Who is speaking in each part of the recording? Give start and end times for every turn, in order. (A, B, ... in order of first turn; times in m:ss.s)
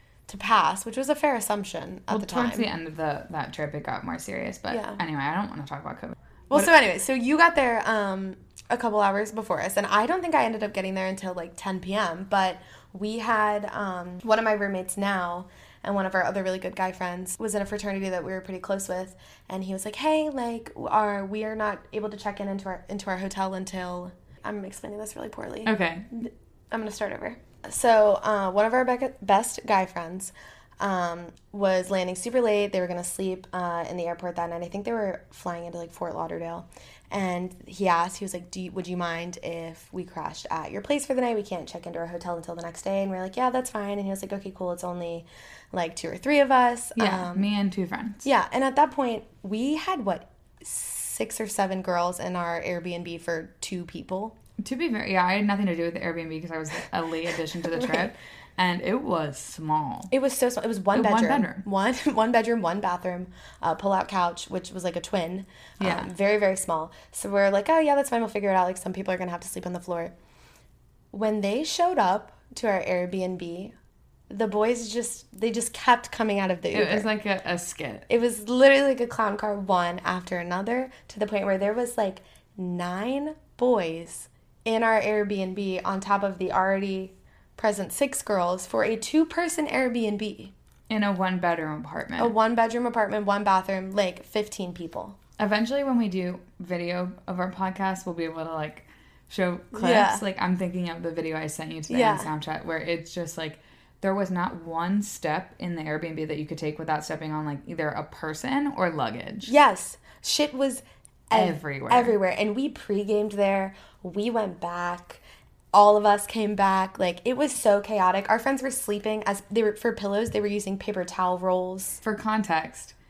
0:00.3-0:02.7 A
0:02.1-0:06.7 B
0:04.7-0:05.0 A
0:06.5-0:47.5 A
0:25.6-0:26.1 B
0:47.0-0:48.3 B
0:48.2-0:54.4 A
0:54.6-1:00.1 B
0:57.7-0:58.1 A
1:00.1-1:10.1 A
1:00.9-1:01.6 B
1:05.8-1:06.1 B
1:11.1-1:13.7 A
1:14.3-1:17.1 A
1:16.7-1:18.1 B
1:18.1-1:30.5 A
1:30.9-1:32.3 B
1:32.2-1:35.2 A
1:35.4-1:49.5 B
1:39.7-1:40.2 A
1:41.9-1:42.3 A
1:49.4-1:55.2 A
1:51.3-1:52.2 B
1:55.7-2:02.0 A
2:02.0-2:03.0 B